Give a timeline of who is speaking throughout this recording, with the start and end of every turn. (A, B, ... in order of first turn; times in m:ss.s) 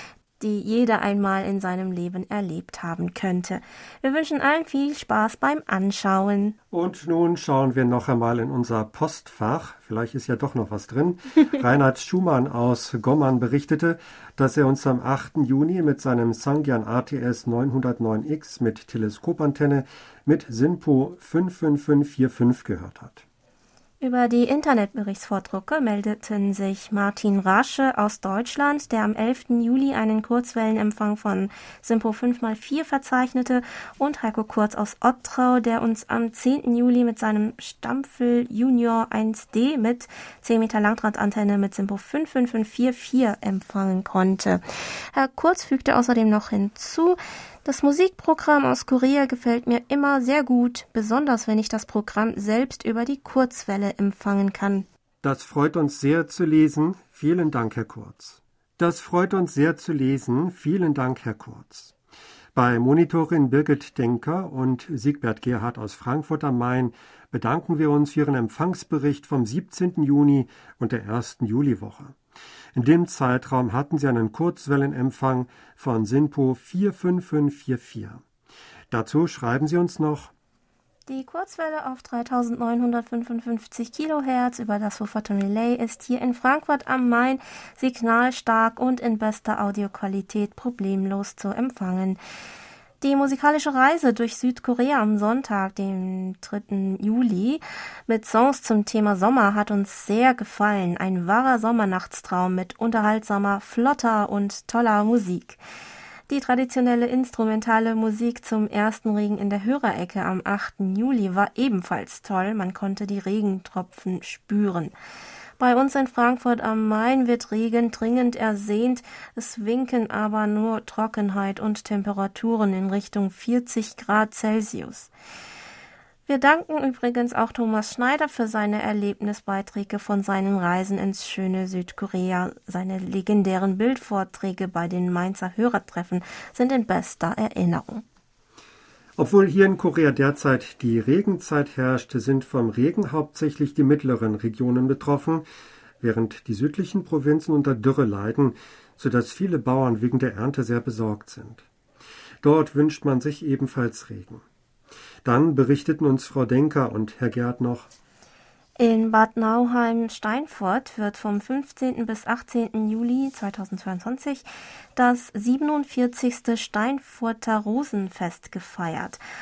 0:00.4-0:06.6 A
0:06.7-0:23.2 B
0:24.0-0:44.6 A
0:45.1-0:54.9 A
0:55.2-1:01.9 B
1:02.5-1:12.2 B
1:12.7-1:18.2 B
1:18.9-1:20.3 B
1:21.1-1:32.2 A
1:33.0-1:45.6 A
1:46.3-1:54.9 A
1:55.6-2:05.1 A
2:06.3-2:18.0 A
2:19.2-2:25.4 B
2:26.0-2:31.6 B
2:32.4-2:34.4 B
2:35.2-2:37.9 B
2:38.8-2:49.2 A